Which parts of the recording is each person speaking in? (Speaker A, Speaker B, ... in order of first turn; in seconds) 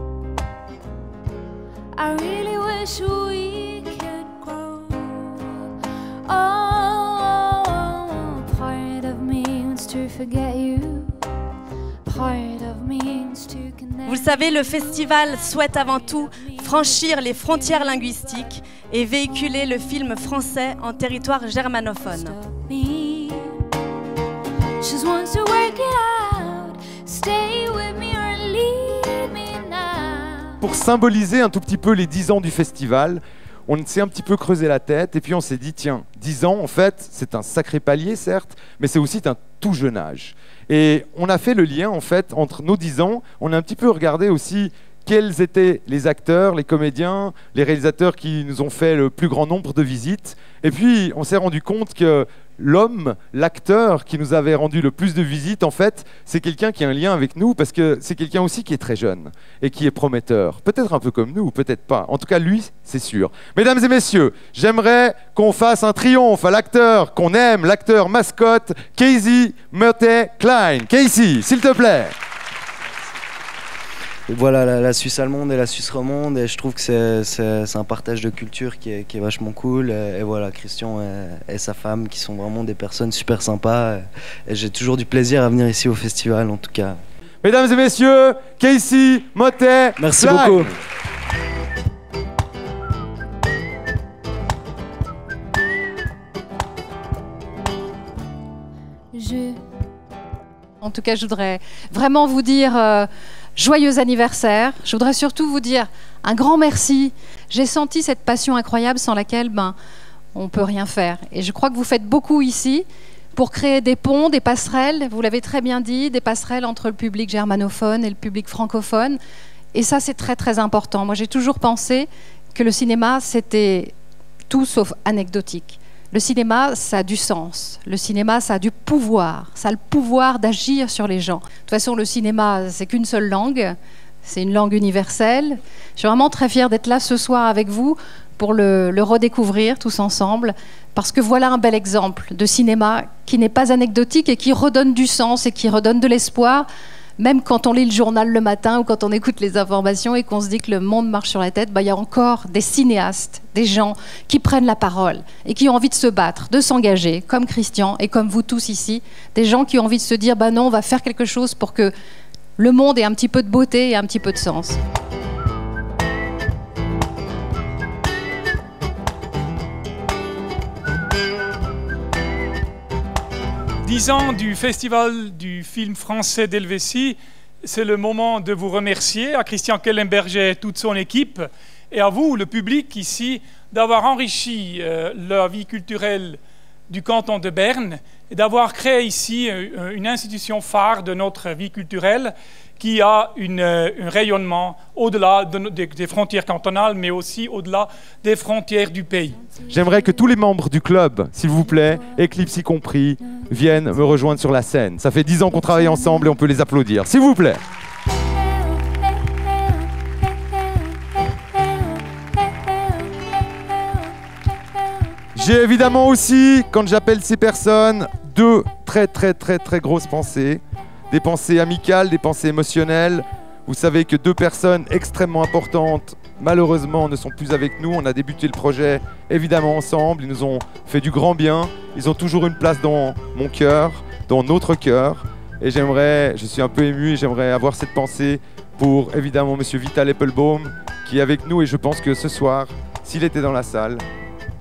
Speaker A: 1.9-5.7, 6.2-11.2, 12.0-18.8, 21.9-23.6, 24.8-30.6, 99.1-99.6, 208.8-209.8, 210.5-210.8, 211.6-211.8, 212.4-213.4
Speaker B: 14.1-22.3
Speaker C: 30.6-72.1, 87.4-90.7, 199.6-207.6, 215.3-244.0
Speaker D: 74.3-87.0, 90.0-90.7
Speaker E: 100.8-109.7, 110.3-119.2, 119.7-123.9, 124.5-146.7, 147.2-161.9, 162.6-164.8
Speaker F: 173.8-199.4